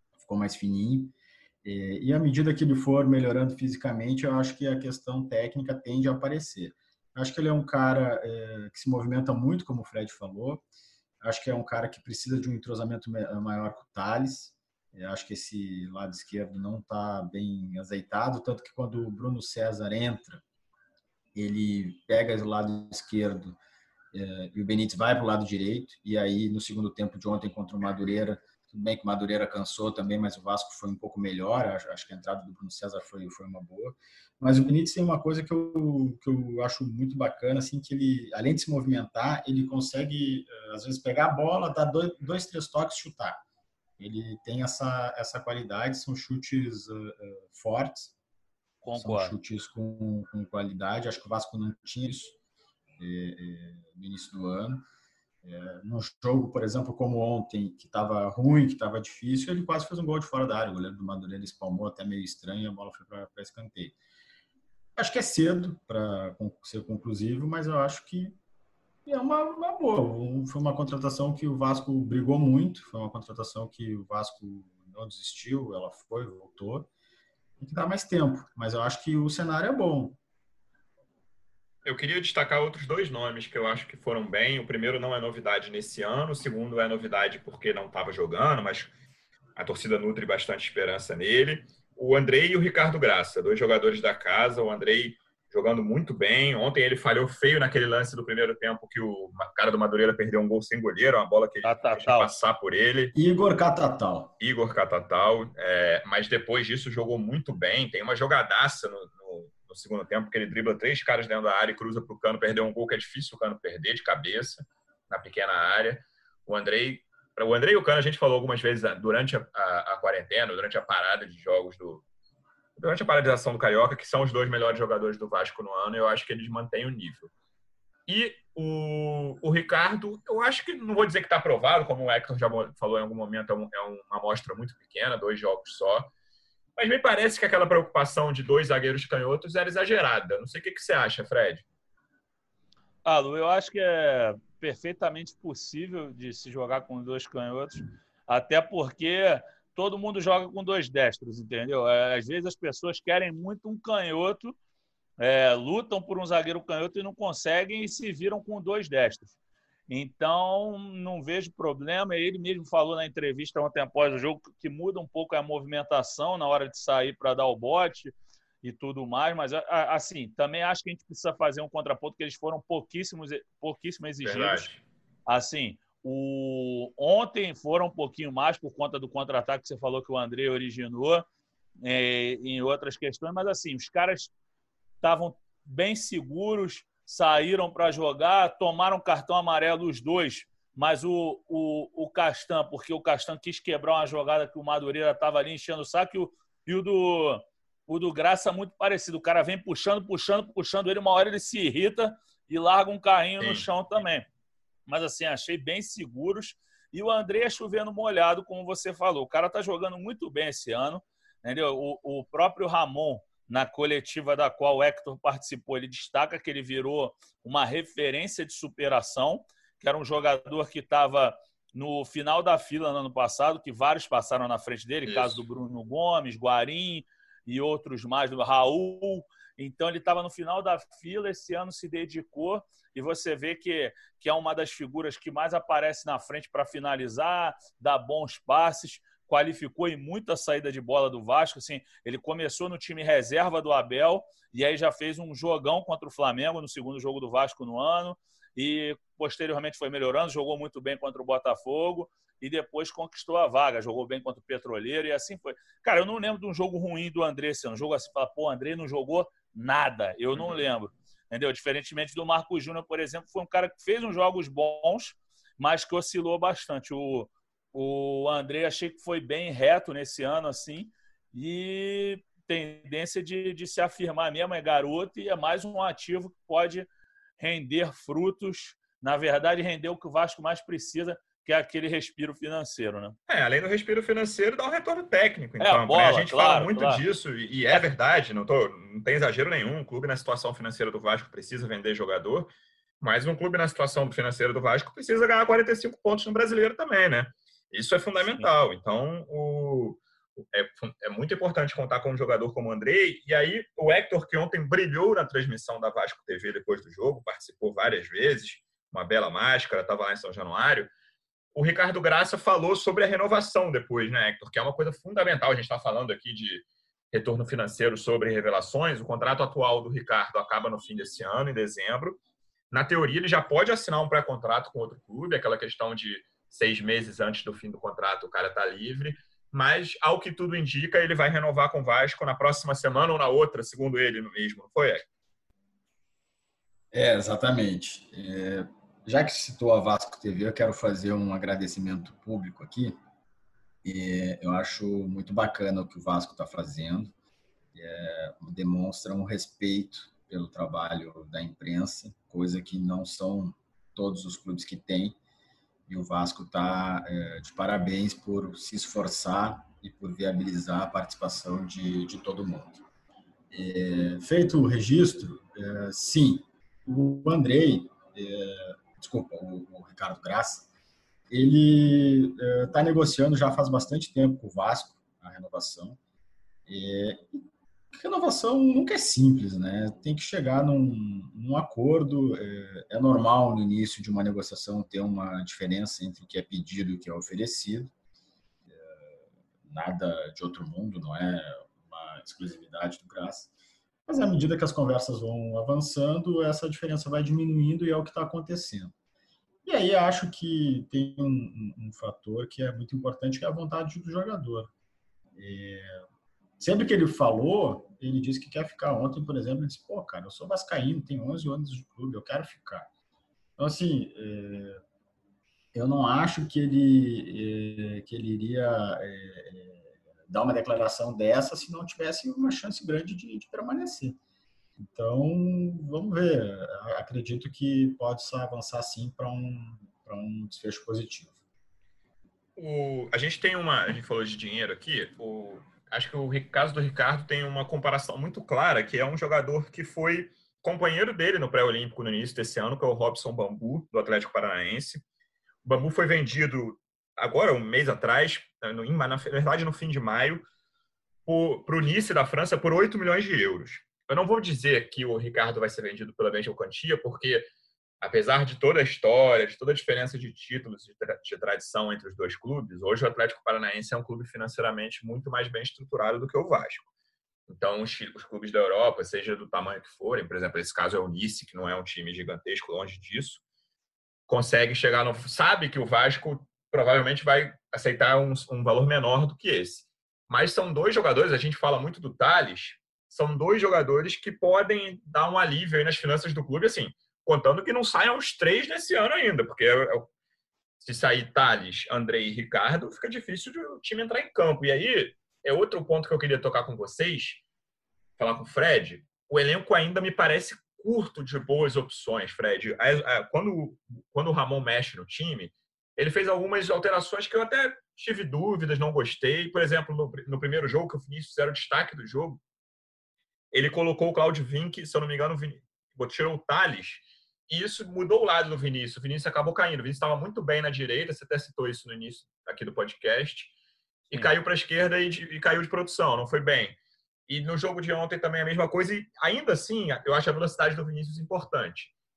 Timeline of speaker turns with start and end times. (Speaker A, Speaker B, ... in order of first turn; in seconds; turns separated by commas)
Speaker A: 0.1-10.6, Speaker A: 11.2-20.4, Speaker A: 21.3-23.6, Speaker A: 24.1-43.4, Speaker A: 44.0-48.1, Speaker B: 48.8-49.3, Speaker A: 48.9-52.4, Speaker A: 53.0-54.8, Speaker A: 55.4-64.0, Speaker A: 65.0-68.4, Speaker A: 69.0-76.9, Speaker A: 77.6-80.2, Speaker C: 81.8-88.9, Speaker C: 89.6-103.1, Speaker B: 101.6-102.3, Speaker A: 103.1-104.3, Speaker C: 104.4-122.0, Speaker C: 122.8-127.3, Speaker C: 128.1-136.1, Speaker C: 136.8-141.6, Speaker B: 143.0-154.6, Speaker B: 155.2-159.3, Speaker B: 159.9-174.7, Speaker C: 174.2-174.8, Speaker B: 175.3-181.2, Speaker B: 181.8-184.3, Speaker B: 185.0-204.3, Speaker C: 203.4-203.7, Speaker B: 204.9-276.9, Speaker C: 225.1-225.4, Speaker C: 260.3-260.6, Speaker B: 277.4-283.1, Speaker C: 283.3-310.9, Speaker B: 285.6-287.0, Speaker B: 298.2-298.5, Speaker C: 311.5-322.2, Speaker C: 322.7-335.0, Speaker A: 336.9-342.9, Speaker A: 343.8-347.1, Speaker A: 347.7-355.2, Speaker A: 355.9-362.8, Speaker A: 363.5-370.7, Speaker A: 371.3-376.0, Speaker A: 376.7-387.9, Speaker A: 388.7-389.1, Speaker A: 389.7-393.5, Speaker A: 394.1-398.9, Speaker A: 399.6-404.7, Speaker A: 405.4-405.9, Speaker A: 406.6-412.9, Speaker A: 413.6-414.8, Speaker A: 415.7-424.2, Speaker A: 424.8-431.4, Speaker C: 432.6-445.0, Speaker C: 445.6-450.4, Speaker C: 451.2-457.4, Speaker C: 458.0-466.9, Speaker C: 467.5-473.4, Speaker C: 474.3-490.1, Speaker C: 490.8-497.4, Speaker C: 498.2-512.4, Speaker C: 513.5-523.5, Speaker C: 524.1-526.8, Speaker C: 527.3-531.9